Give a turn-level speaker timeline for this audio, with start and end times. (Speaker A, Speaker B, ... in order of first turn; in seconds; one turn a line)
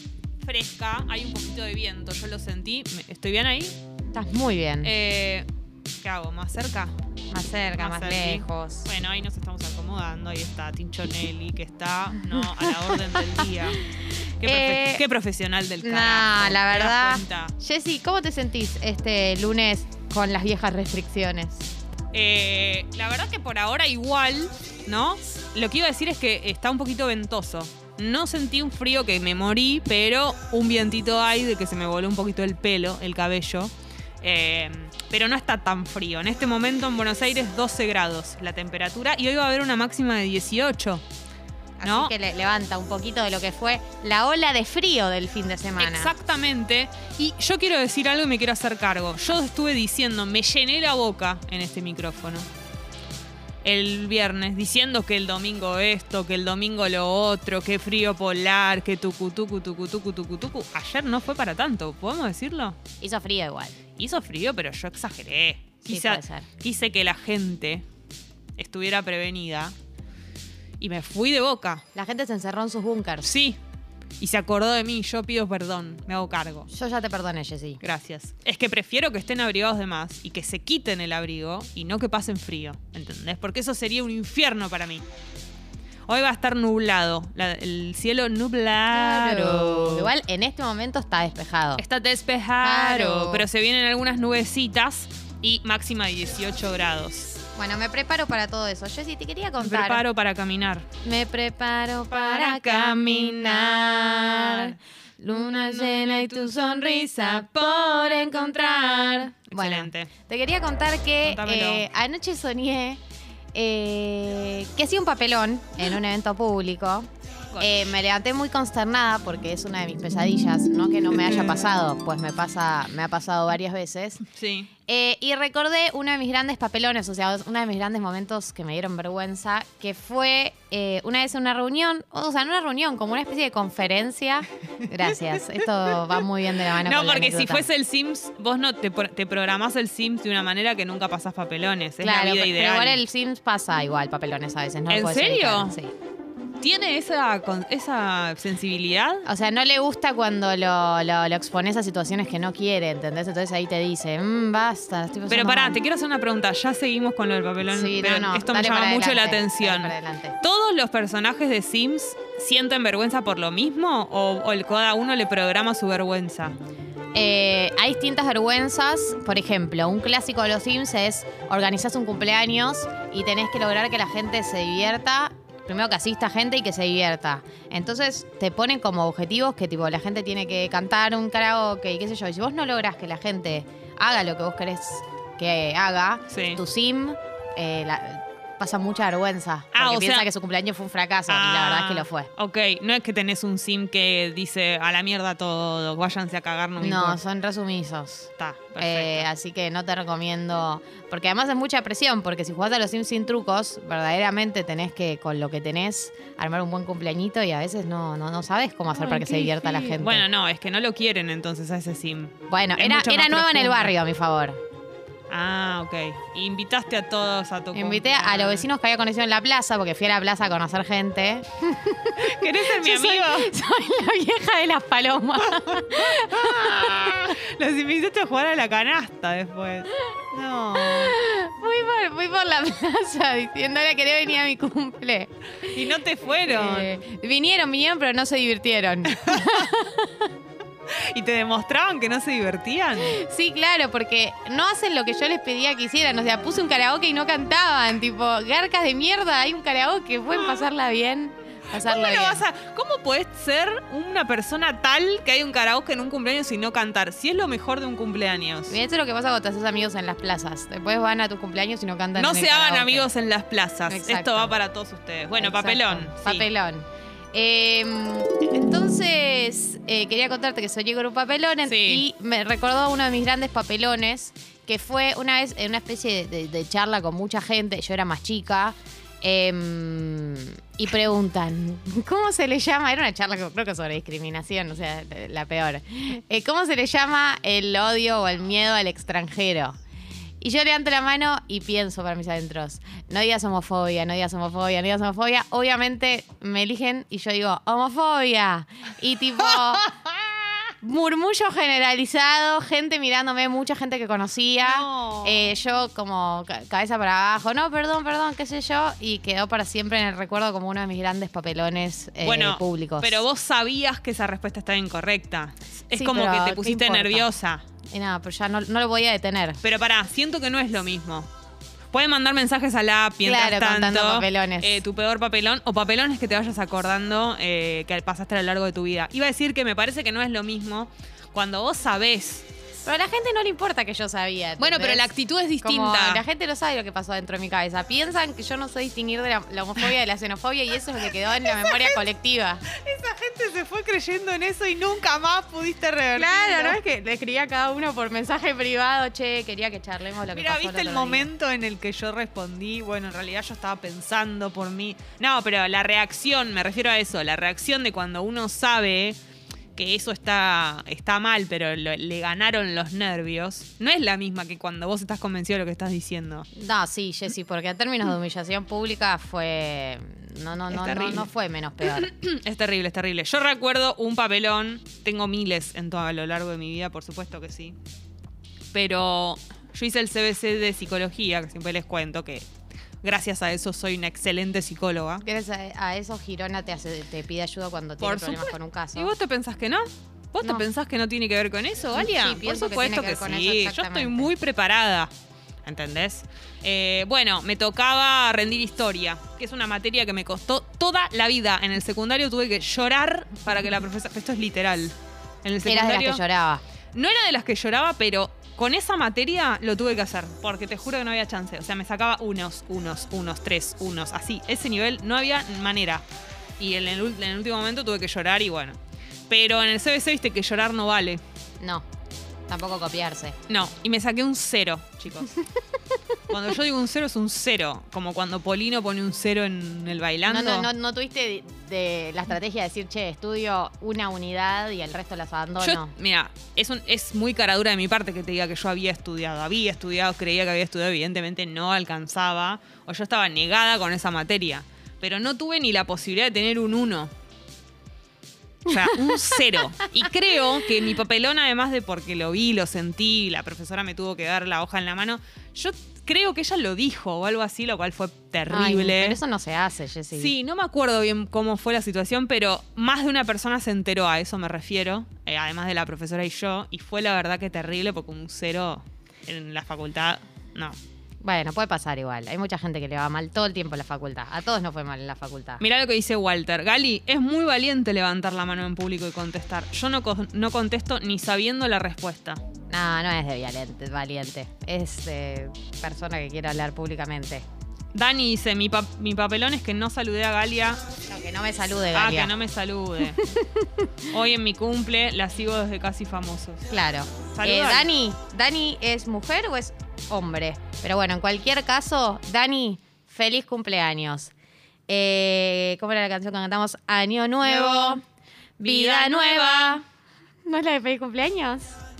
Speaker A: 0.4-3.8
Speaker B: 4.1-4.9
Speaker A: 4.8-5.5
Speaker A: 6.0-6.9
Speaker B: 7.3-8.9
Speaker A: 7.8-13.9
Speaker B: 12.2-13.5
Speaker A: 14.4-17.5
Speaker B: 14.4-15.0
Speaker B: 15.8-21.7
Speaker A: 22.1-41.0
Speaker B: 41.8-46.1
Speaker A: 41.8-42.1
Speaker A: 45.8-52.5
Speaker A: 53.6-62.8
Speaker B: 63.0-63.8
Speaker A: 64.0-67.8
Speaker B: 65.8-66.5
Speaker A: 68.6-69.7
Speaker A: 70.8-71.8
Speaker B: 71.9-73.3
Speaker A: 73.2-73.6
Speaker A: 74.2-76.7
Speaker B: 76.7-77.8
Speaker A: 77.8-85.0
Speaker A: 86.1-90.1
Speaker B: 88.9-91.8
Speaker A: 91.8-97.3
Speaker B: 92.6-93.5
Speaker B: 97.5-100.0
Speaker A: 99.6-100.8
Speaker B: 101.0-113.0
Speaker A: 102.1-104.8
Speaker A: 105.8-108.0
Speaker A: 109.5-110.1
Speaker A: 111.2-111.8
Speaker B: 113.5-117.1
Speaker A: 117.5-117.8
Speaker B: 117.6-124.2
Speaker A: 121.2-121.7
Speaker A: 124.3-124.7
Speaker B: 124.9-137.7
Speaker A: 136.8-143.0
Speaker B: 142.0-145.9
Speaker A: 144.9-145.8
Speaker A: 146.6-149.2
Speaker B: 149.2-155.8
Speaker A: 155.3-166.6
Speaker B: 157.7-160.3
Speaker B: 167.1-192.3
Speaker A: 186.3-186.6
Speaker A: 189.7-190.3
Speaker A: 191.3-197.2
Speaker B: 196.8-210.2
Speaker A: 198.4-199.3
Speaker A: 208.9-213.9
Speaker B: 212.5-214.6
Speaker A: 215.3-218.7
Speaker B: 217.7-227.3
Speaker A: 222.2-223.5
Speaker A: 226.0-231.1
Speaker B: 230.8-235.3
Speaker A: 235.7-236.9
Speaker B: 236.4-240.3
Speaker A: 239.3-239.6
Speaker A: 241.1-243.1
Speaker B: 243.0-252.4
Speaker A: 251.8-258.8
Speaker B: 258.7-263.1
Speaker A: 262.1-266.4
Speaker B: 263.9-264.5
Speaker B: 265.4-289.8
Speaker A: 271.6-272.0
Speaker B: 290.4-299.8
Speaker B: 300.8-313.2
Speaker A: 304.6-305.5
Speaker A: 312.2-317.6
Speaker B: 315.9-317.3
Speaker B: 317.9-319.6
Speaker A: 319.6-321.3
Speaker A: 321.9-332.5
Speaker B: 323.2-324.8
Speaker B: 332.8-335.0
Speaker A: 334.6-336.2
Speaker B: 335.6-342.6
Speaker A: 341.3-341.9
Speaker A: 342.7-346.8
Speaker B: 346.1-351.3
Speaker A: 350.3-359.2
Speaker A: 359.8-366.4
Speaker B: 366.6-372.1
Speaker A: 370.7-371.3
Speaker A: 371.8-377.8
Speaker A: 378.7-382.4
Speaker A: 383.0-385.2
Speaker B: 385.2-389.1
Speaker A: 388.0-395.1
Speaker B: 391.9-394.3
Speaker A: 395.6-406.2
Speaker B: 405.6-406.6
Speaker A: 406.9-416.1
Speaker A: 416.6-418.8
Speaker A: 419.3-421.2
Speaker B: 421.6-421.8
Speaker B: 422.5-423.4
Speaker A: 423.5-425.4
Speaker A: 426.3-430.7
Speaker B: 430.3-435.9
Speaker A: 435.6-447.1
Speaker A: 448.7-459.2
Speaker B: 458.5-460.3
Speaker A: 460.1-470.8
Speaker B: 471.2-475.6
Speaker A: 475.6-482.4
Speaker B: 482.7-487.4
Speaker A: 487.9-490.8
Speaker B: 491.1-492.3
Speaker A: 491.9-493.2
Speaker B: 493.0-493.9
Speaker A: 494.1-496.6
Speaker B: 496.7-504.3
Speaker A: 497.3-497.9
Speaker B: 504.9-508.0
Speaker A: 507.4-508.0
Speaker B: 508.6-509.8
Speaker A: 508.6-509.8
Speaker B: 510.4-511.8